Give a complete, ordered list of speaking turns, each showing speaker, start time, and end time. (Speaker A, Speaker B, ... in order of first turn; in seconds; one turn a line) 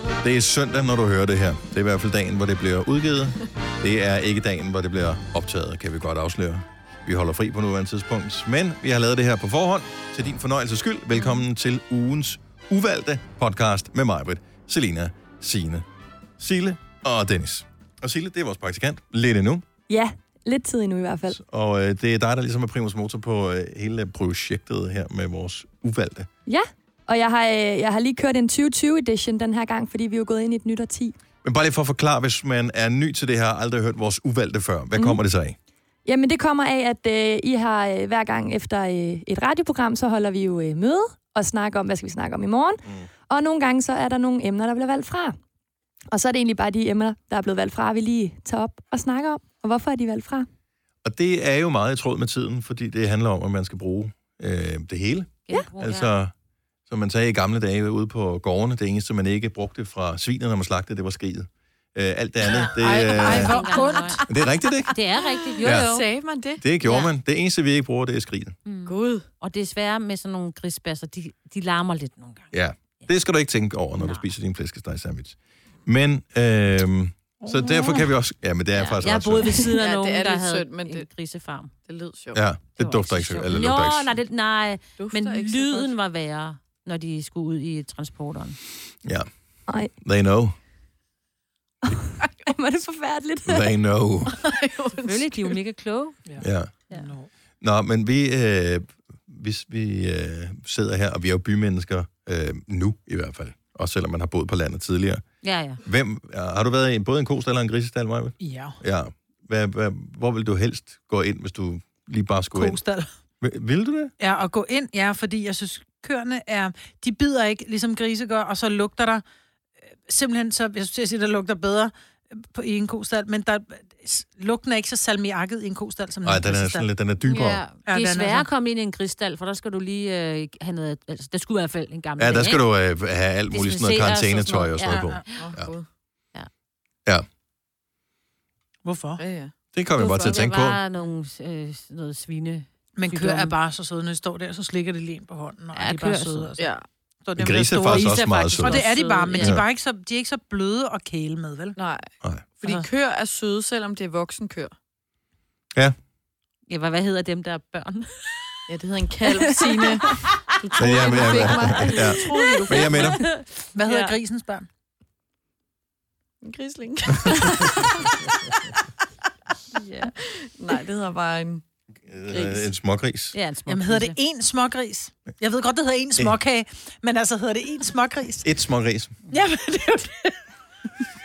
Speaker A: 0.2-15.8
Speaker A: 16.4-19.6
Speaker B: 19.9-21.4
Speaker A: 21.3-26.3
Speaker B: 26.4-31.1
Speaker A: 31.4-35.5
Speaker B: 36.0-45.4
Speaker B: 46.1-50.5
Speaker A: 51.0-56.3
Speaker C: 55.5-56.1
Speaker A: 56.9-63.6
Speaker D: 62.6-64.3
Speaker C: 62.6-64.2
Speaker A: 64.2-65.0
Speaker C: 64.9-66.1
Speaker E: 65.2-66.6
Speaker A: 65.6-66.0
Speaker A: 66.6-68.6
Speaker C: 66.8-67.1
Speaker C: 68.7-72.5
Speaker E: 68.8-69.2
Speaker A: 72.5-79.7
Speaker C: 74.0-74.2
Speaker D: 77.4-78.0
Speaker C: 78.7-81.7
Speaker E: 79.7-81.1
Speaker E: 81.8-82.4
Speaker A: 82.3-84.2
Speaker C: 82.8-88.6
Speaker E: 85.0-85.9
Speaker B: 89.7-89.9
Speaker A: 90.0-90.5
Speaker B: 91.8-93.7
Speaker A: 93.5-94.3
Speaker E: 94.2-95.6
Speaker C: 95.0-96.2
Speaker D: 96.3-97.3
Speaker A: 96.4-96.7
Speaker A: 97.6-105.2
Speaker C: 105.4-105.8
Speaker A: 105.8-112.8
Speaker D: 108.4-108.8
Speaker D: 112.5-113.1
Speaker A: 113.4-114.1
Speaker D: 114.2-119.2
Speaker D: 120.0-126.9
Speaker A: 126.2-127.6
Speaker C: 127.2-132.6
Speaker D: 127.8-128.5
Speaker A: 132.2-135.7
Speaker C: 133.5-135.5
Speaker D: 134.9-135.2
Speaker E: 135.3-135.8
Speaker D: 138.8-139.2
Speaker E: 139.2-139.5
Speaker A: 139.7-140.8
Speaker C: 140.0-143.5
Speaker D: 143.0-146.7
Speaker C: 145.7-146.5
Speaker E: 146.6-146.8
Speaker D: 147.2-151.8
Speaker A: 147.4-149.7
Speaker C: 147.8-149.6
Speaker E: 151.8-152.1
Speaker E: 152.6-154.7
Speaker C: 156.7-158.6
Speaker E: 158.7-163.2
Speaker C: 159.3-160.2
Speaker A: 160.8-163.2
Speaker C: 160.8-164.1
Speaker D: 163.7-164.7
Speaker E: 166.4-168.1
Speaker C: 169.8-170.1
Speaker E: 170.0-171.6
Speaker A: 172.1-173.3
Speaker E: 172.3-172.7
Speaker C: 173.3-174.2
Speaker D: 173.7-178.5
Speaker A: 178.4-179.2
Speaker D: 179.3-180.4